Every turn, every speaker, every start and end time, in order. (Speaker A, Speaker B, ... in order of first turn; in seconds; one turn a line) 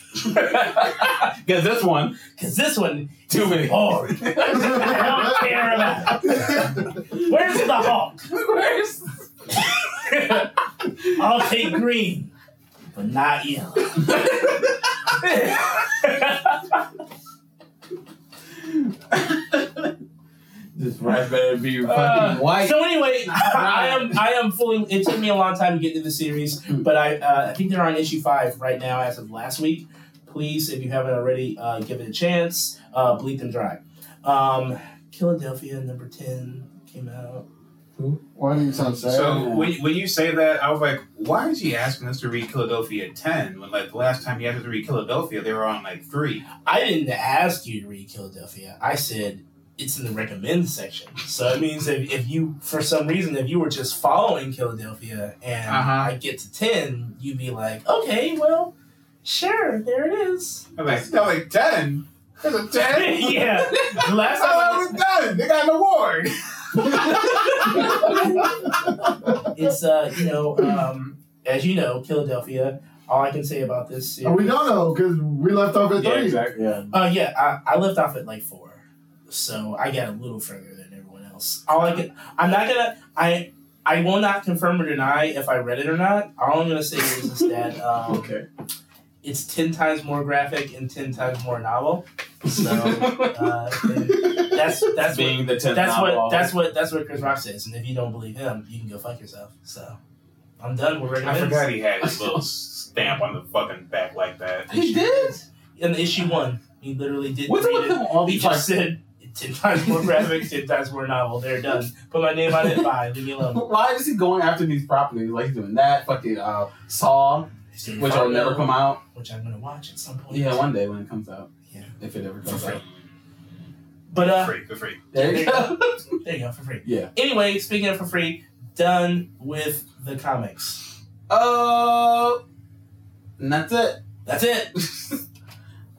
Speaker A: 0.2-1.3
Speaker B: 0.3-2.2
Speaker A: 2.3-6.7
Speaker B: 3.3-9.1
Speaker C: 6.1-6.8
Speaker A: 7.2-8.3
Speaker A: 9.5-10.5
Speaker A: 11.1-12.3
Speaker A: 12.9-14.5
Speaker B: 14.2-14.4
Speaker A: 15.1-16.8
Speaker B: 18.7-19.9
Speaker B: 20.8-24.2
Speaker A: 21.8-37.4
Speaker C: 38.3-39.5
Speaker D: 39.0-46.5
Speaker B: 39.1-39.7
Speaker A: 46.6-58.7
Speaker D: 55.7-56.1
Speaker A: 59.2-60.7
Speaker D: 60.8-69.1
Speaker A: 62.8-64.9
Speaker A: 66.8-68.5
Speaker A: 69.5-74.8
Speaker C: 74.2-76.4
Speaker B: 76.0-76.9
Speaker A: 76.9-88.3
Speaker B: 88.0-88.5
Speaker A: 89.2-100.0
Speaker B: 92.5-96.5
Speaker A: 100.6-101.7
Speaker D: 101.2-105.1
Speaker B: 104.7-105.4
Speaker A: 105.8-113.6
Speaker B: 107.5-108.7
Speaker B: 112.5-112.8
Speaker B: 113.4-117.5
Speaker A: 117.7-120.7
Speaker B: 118.0-119.0
Speaker B: 120.3-122.8
Speaker A: 122.5-122.8
Speaker A: 124.1-124.5
Speaker D: 124.2-125.0
Speaker B: 125.1-126.2
Speaker A: 125.1-130.8
Speaker B: 126.8-127.1
Speaker B: 131.3-132.4
Speaker B: 133.4-134.0
Speaker A: 134.2-134.7
Speaker B: 134.7-135.2